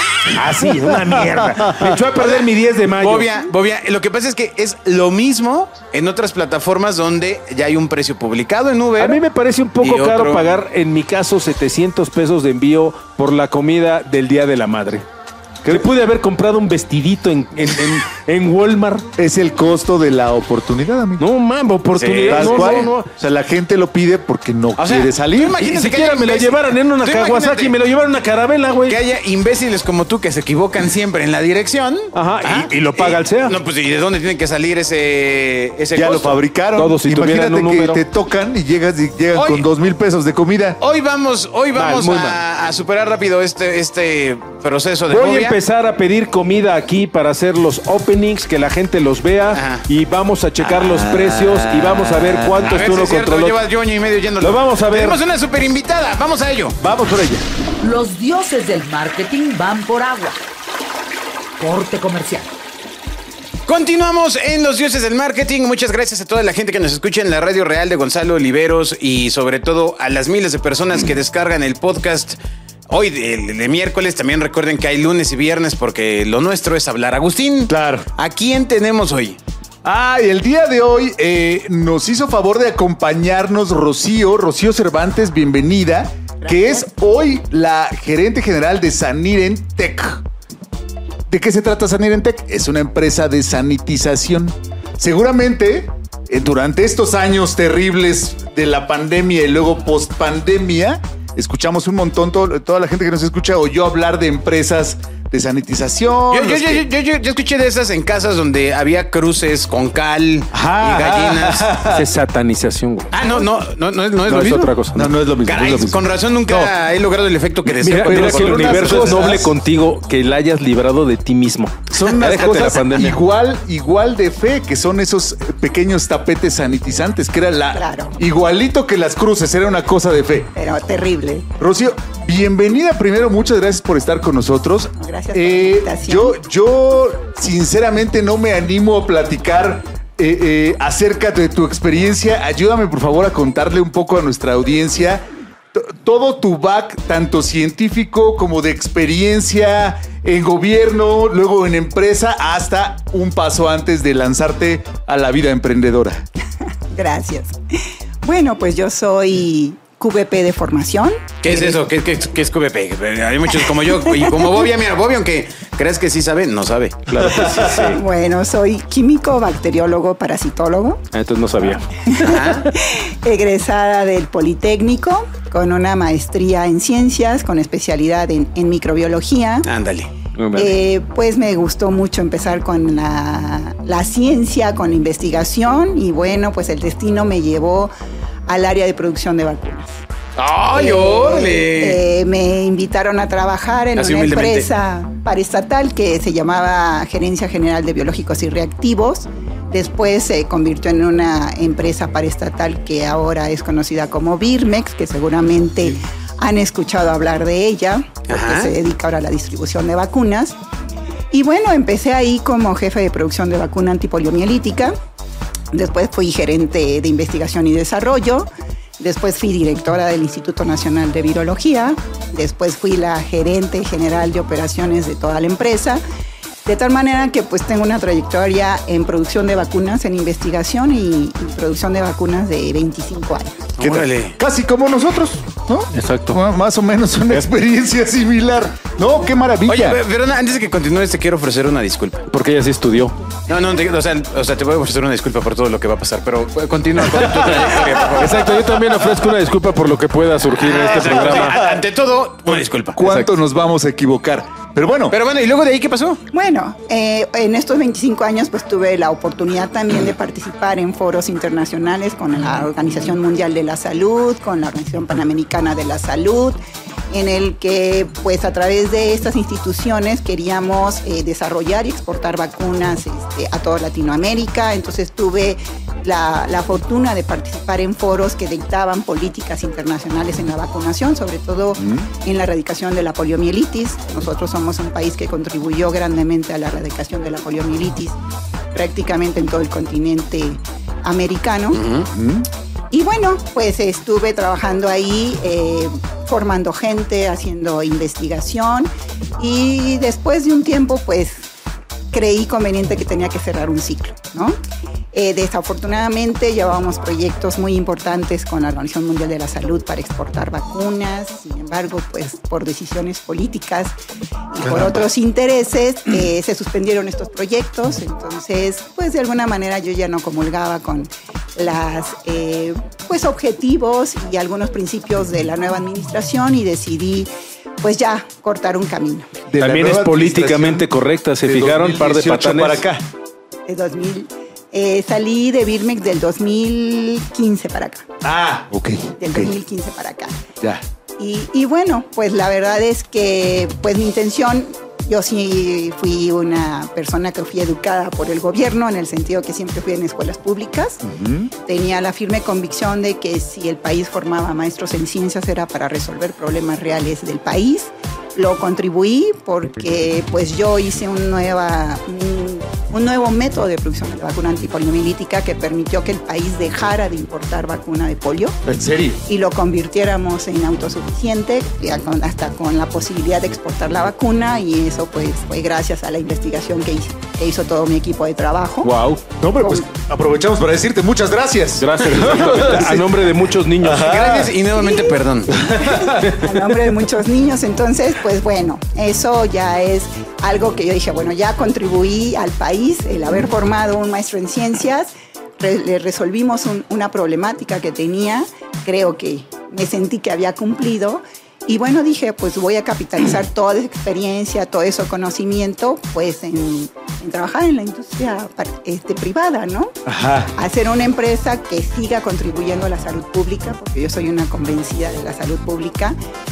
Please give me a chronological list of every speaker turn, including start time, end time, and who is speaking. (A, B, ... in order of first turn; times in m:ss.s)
0:00.2-0:03.3 A
0:00.6-0:01.8 B
0:02.0-0:09.2 C
0:09.0-0:15.1 A
0:09.8-0:10.5 C
0:15.7-0:19.1 A
0:19.2-0:21.2 B
0:21.2-0:23.1 A
0:21.9-0:22.9 C
0:22.3-0:25.6 B
0:24.8-0:27.8 C
0:25.6-0:29.0 A
0:28.9-0:36.4 C
0:32.1-0:33.6 A
0:36.0-0:40.8 B
0:36.8-0:38.0 A
0:39.3-0:39.7 C
0:40.8-0:45.6 C
0:41.7-0:42.4 A
0:45.1-0:53.6 A
0:49.5-0:49.9 C
0:50.7-0:52.7 B
0:52.6-0:56.8 C
0:54.4-0:55.2 A
0:56.8-0:57.4 B
0:57.8-1:00.4 D
1:01.6-1:02.5 D
1:03.7-1:12.4 C
1:12.9-1:19.4 C
1:17.7-1:18.1 B
1:19.8-1:30.2 B
1:26.4-1:26.8 E
1:31.3-1:46.9 B
1:46.3-1:51.8 C
1:50.5-1:52.1 B
1:51.9-1:53.1 A
1:53.1-1:54.8 C
1:54.3-1:55.1 A
1:54.3-1:56.0 B
1:55.4-1:59.4 C
1:57.7-2:03.2 A
1:58.0-1:59.5 B
2:01.9-2:10.5 B
2:07.7-2:08.2 E
2:10.6-2:11.5 E
2:11.6-2:36.3 B
2:15.0-2:16.4 E
2:36.9-2:41.8 E
2:41.4-2:47.4 C
2:44.1-2:44.4 E
2:47.1-2:48.0 A
2:47.8-2:51.0 E
2:51.1-2:52.2 A
2:52.1-2:52.7 C
2:52.1-2:59.7 E
2:59.6-3:00.1 C
3:00.4-3:00.8 A
3:00.5-3:07.9 E
3:08.5-3:10.0 E
3:10.4-3:12.0 C
3:10.7-3:30.6 E
3:14.0-3:14.7 C
3:28.3-3:28.8 C
3:31.3-3:35.0 E
3:35.7-3:46.0 E
3:46.6-3:53.7 E
3:53.8-3:54.4 C
3:53.8-4:00.0 B
3:55.9-3:56.4 A
3:59.7-4:02.3 C
4:02.3-4:03.2 A
4:03.5-4:08.6 C
4:08.2-4:11.6 A
4:10.6-4:13.2 C
4:11.0-4:11.8 B
4:12.5-4:15.2 B
4:15.1-4:16.2 C
4:16.3-4:26.6 E
4:27.1-4:48.2 E
4:41.8-4:42.1 B
4:48.7-4:51.8 E
4:51.7-4:52.1 C
4:52.1-4:52.5 B
4:52.9-5:01.5 E
5:02.1-5:04.6 E
5:05.1-5:14.0 E
5:14.5-5:27.3 E
5:14.7-5:15.0 B
5:27.8-5:29.3 E
5:29.5-5:30.9 B
5:29.6-5:32.8 A
5:31.4-5:33.0 B
5:33.7-5:38.1 E
5:38.2-5:39.5 B
5:39.2-5:40.4 E
5:41.2-5:51.0 E
5:51.0-5:51.5 B
5:51.6-6:08.6 E
6:08.6-6:09.2 B
6:09.3-6:18.9 E
6:18.8-6:19.2 A
6:19.4-6:23.2 B
6:19.6-6:19.9 E
6:21.8-6:24.1 A
6:23.8-6:24.6 B
6:24.0-6:25.7 C
6:24.8-6:50.0 E
6:25.5-6:26.4 B
6:26.2-6:26.5 A
6:50.1-6:50.5 B
6:50.5-6:56.2 E